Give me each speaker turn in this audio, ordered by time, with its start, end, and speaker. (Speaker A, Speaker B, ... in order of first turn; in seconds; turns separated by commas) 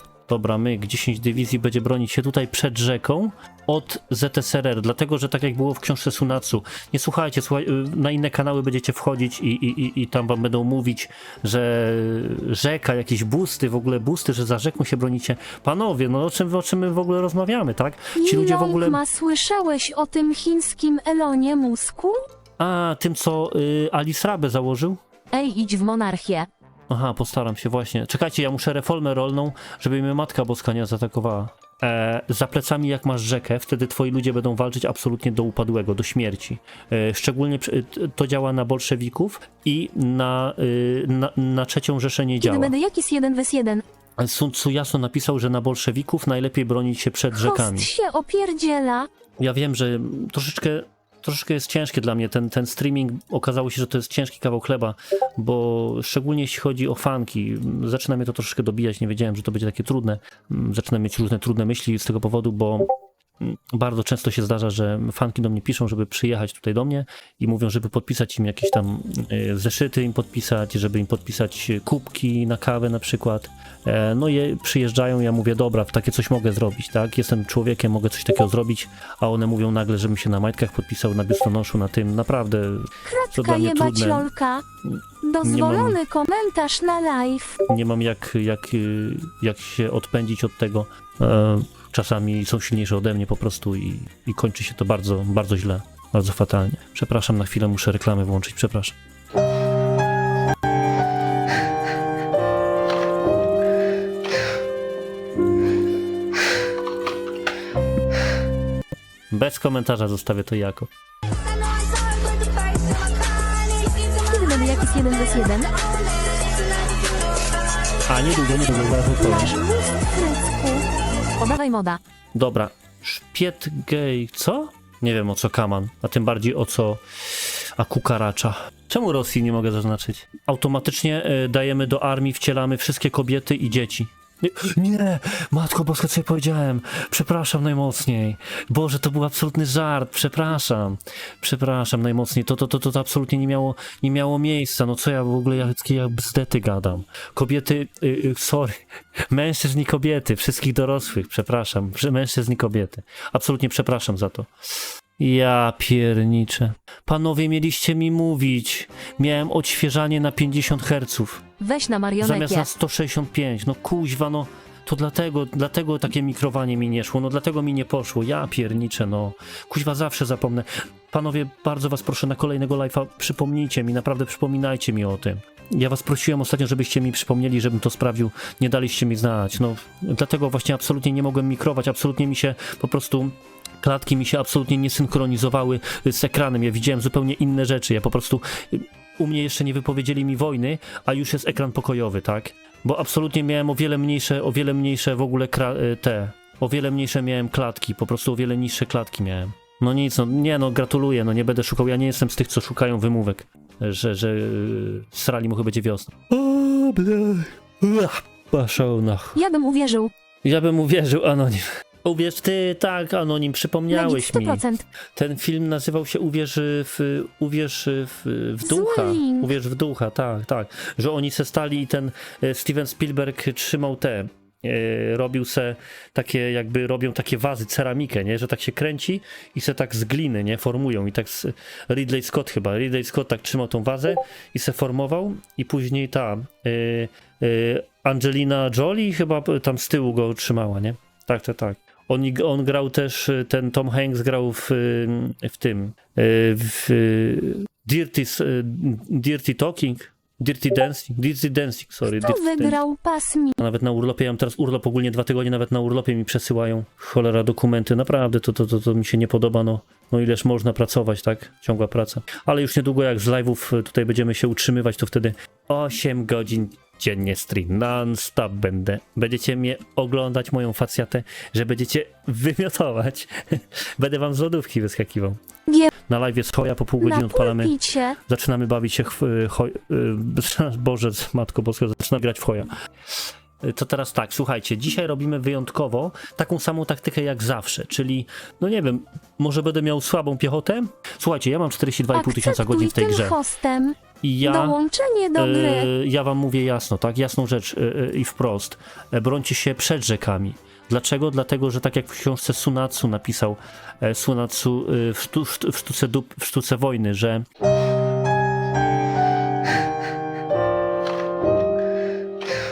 Speaker A: 0.3-19.0, Speaker B: 18.1-22.2, Speaker A: 22.6-25.0, Speaker C: 25.3-26.5, Speaker A: 26.9-42.7, Speaker B: 42.4-43.8, Speaker A: 44.2-47.9, Speaker B: 47.3-49.1, Speaker A: 49.4-84.3, Speaker B: 83.0-84.6, Speaker A: 84.8-86.0, Speaker B: 85.2-87.6, Speaker A: 87.7-99.0, Speaker A: 109.3-110.9, Speaker B: 114.2-115.9, Speaker A: 118.1-119.6, Speaker B: 119.2-120.9, Speaker C: 121.4-122.0, Speaker A: 122.3-161.4, Speaker C: 161.6-162.7, Speaker A: 162.2-209.4, Speaker B: 209.3-210.1, Speaker A: 210.4-214.6, Speaker B: 213.9-214.8, Speaker A: 215.2-252.8, Speaker B: 218.6-219.5, Speaker B: 252.1-253.6, Speaker A: 253.6-275.4, Speaker B: 275.7-275.9, Speaker A: 276.1-282.7, Speaker B: 277.0-278.2, Speaker A: 283.6-293.4, Speaker B: 292.1-295.9, Speaker A: 294.2-294.8, Speaker A: 295.3-307.4